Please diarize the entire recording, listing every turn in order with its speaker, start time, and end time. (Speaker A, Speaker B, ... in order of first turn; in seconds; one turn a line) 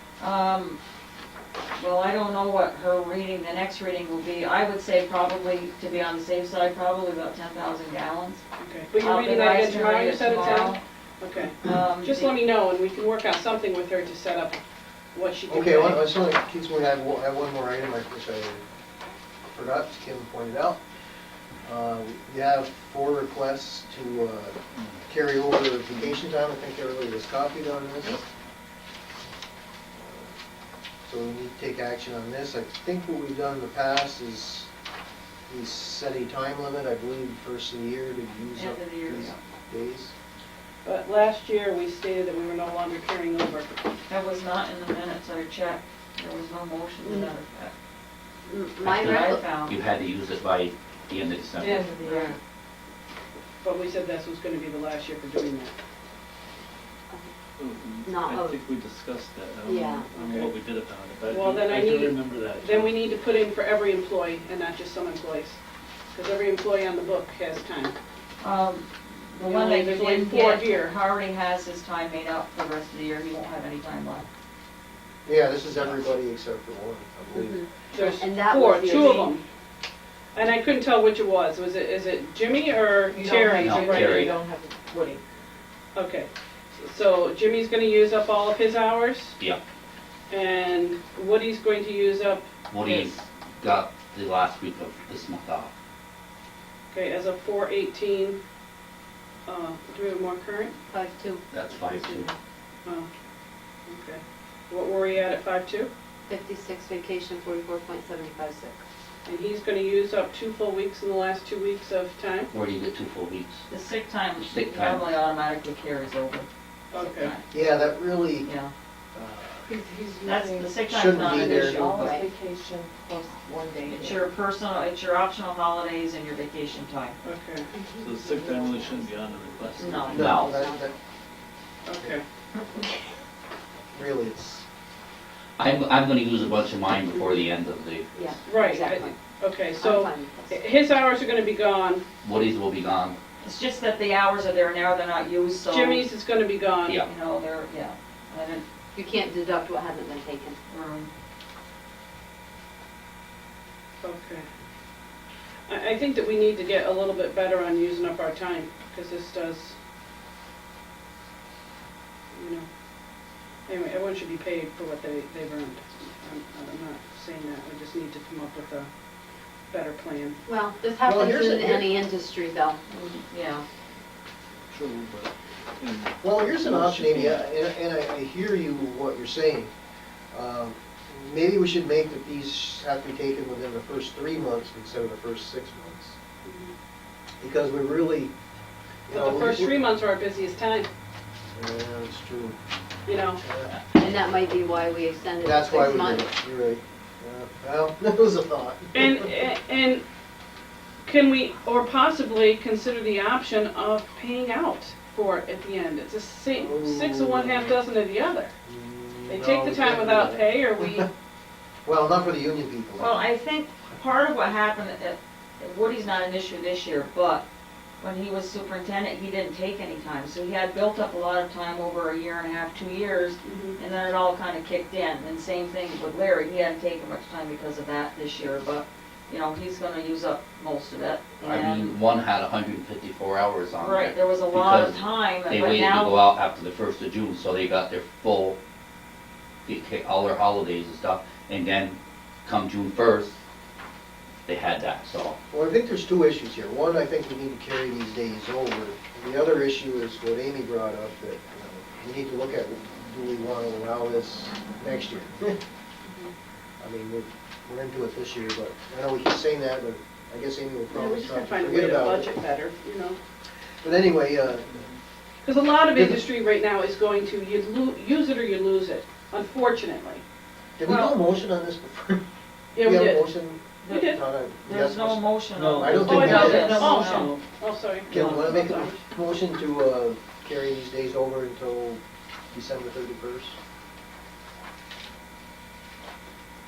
Speaker A: 0.2-0.8
Speaker A: 1.8-8.4
Speaker B: 8.6-14.6
Speaker A: 8.9-10.8
Speaker A: 11.6-12.3
Speaker B: 15.1-16.0
Speaker C: 15.5-18.6
Speaker C: 19.5-20.8
Speaker C: 21.6-28.2
Speaker C: 30.0-30.3
Speaker C: 31.1-34.7
Speaker C: 35.5-40.1
Speaker A: 38.5-39.4
Speaker B: 40.8-43.8
Speaker A: 44.1-47.7
Speaker D: 47.0-47.3
Speaker D: 48.5-49.5
Speaker E: 48.8-51.9
Speaker A: 49.1-49.8
Speaker D: 51.6-52.4
Speaker F: 51.6-52.3
Speaker A: 52.0-52.3
Speaker B: 53.6-55.7
Speaker G: 57.6-63.1
Speaker D: 58.0-58.6
Speaker D: 59.6-60.1
Speaker B: 60.1-60.5
Speaker B: 61.3-65.6
Speaker B: 66.1-67.9
Speaker A: 68.4-74.3
Speaker B: 69.5-70.9
Speaker C: 75.2-77.6
Speaker D: 77.3-79.3
Speaker B: 77.9-79.4
Speaker B: 80.3-84.3
Speaker F: 83.1-85.2
Speaker E: 83.6-84.4
Speaker B: 85.9-89.3
Speaker B: 90.3-92.5
Speaker E: 92.7-95.7
Speaker B: 96.9-98.4
Speaker B: 99.5-100.7
Speaker D: 100.9-102.3
Speaker E: 101.5-102.3
Speaker B: 103.8-105.9
Speaker D: 106.3-108.8
Speaker B: 109.2-112.5
Speaker E: 112.5-113.7
Speaker A: 113.7-117.5
Speaker E: 114.4-115.1
Speaker B: 116.9-117.3
Speaker C: 117.5-118.5
Speaker A: 118.4-118.7
Speaker C: 119.1-119.7
Speaker F: 119.7-124.3
Speaker A: 120.2-122.2
Speaker C: 120.8-121.8
Speaker D: 121.9-122.3
Speaker A: 123.9-127.2
Speaker B: 127.2-127.7
Speaker D: 127.7-129.0
Speaker G: 128.0-130.4
Speaker D: 129.8-130.8
Speaker A: 129.8-130.4
Speaker C: 130.1-130.9
Speaker E: 130.1-130.5
Speaker B: 131.8-132.2
Speaker C: 133.9-134.6
Speaker E: 135.6-138.1
Speaker D: 138.1-139.2
Speaker B: 138.4-142.0
Speaker D: 139.8-140.6
Speaker E: 142.2-143.2
Speaker A: 143.4-146.1
Speaker B: 145.7-147.0
Speaker A: 147.1-148.6
Speaker D: 148.9-150.6
Speaker A: 150.7-151.1
Speaker B: 154.0-154.4
Speaker B: 155.7-159.8
Speaker B: 162.3-162.7
Speaker B: 163.7-168.9
Speaker B: 169.7-170.4
Speaker D: 170.4-172.8
Speaker C: 171.0-171.9
Speaker A: 172.9-173.6
Speaker G: 174.7-177.5
Speaker C: 176.2-179.7
Speaker C: 180.3-186.2
Speaker B: 186.4-186.7
Speaker C: 187.4-188.3
Speaker C: 189.1-189.7
Speaker B: 189.1-190.9
Speaker C: 191.5-192.6
Speaker B: 193.1-193.4
Speaker C: 193.4-193.8
Speaker D: 193.9-196.3
Speaker C: 195.4-199.3
Speaker B: 198.9-200.0
Speaker B: 201.1-208.5
Speaker C: 206.5-207.8
Speaker C: 208.7-211.1
Speaker B: 209.3-211.1
Speaker C: 211.8-213.2
Speaker A: 213.0-217.4
Speaker A: 218.0-232.0
Speaker B: 223.4-223.8
Speaker E: 231.4-238.6
Speaker A: 233.8-236.2
Speaker E: 239.6-243.4
Speaker E: 244.5-245.4
Speaker C: 245.5-255.6
Speaker C: 256.8-262.3
Speaker B: 260.9-263.2
Speaker C: 263.8-264.9
Speaker B: 265.4-270.2
Speaker C: 265.9-266.2
Speaker C: 270.8-272.2
Speaker A: 270.8-271.2
Speaker B: 272.7-273.3
Speaker C: 272.8-276.8
Speaker B: 273.9-274.2
Speaker A: 274.6-277.3
Speaker G: 275.6-277.4
Speaker B: 276.0-278.9
Speaker F: 276.8-277.4
Speaker C: 278.1-282.0
Speaker A: 278.1-278.6
Speaker G: 278.1-278.4
Speaker F: 278.3-278.9
Speaker C: 282.5-283.6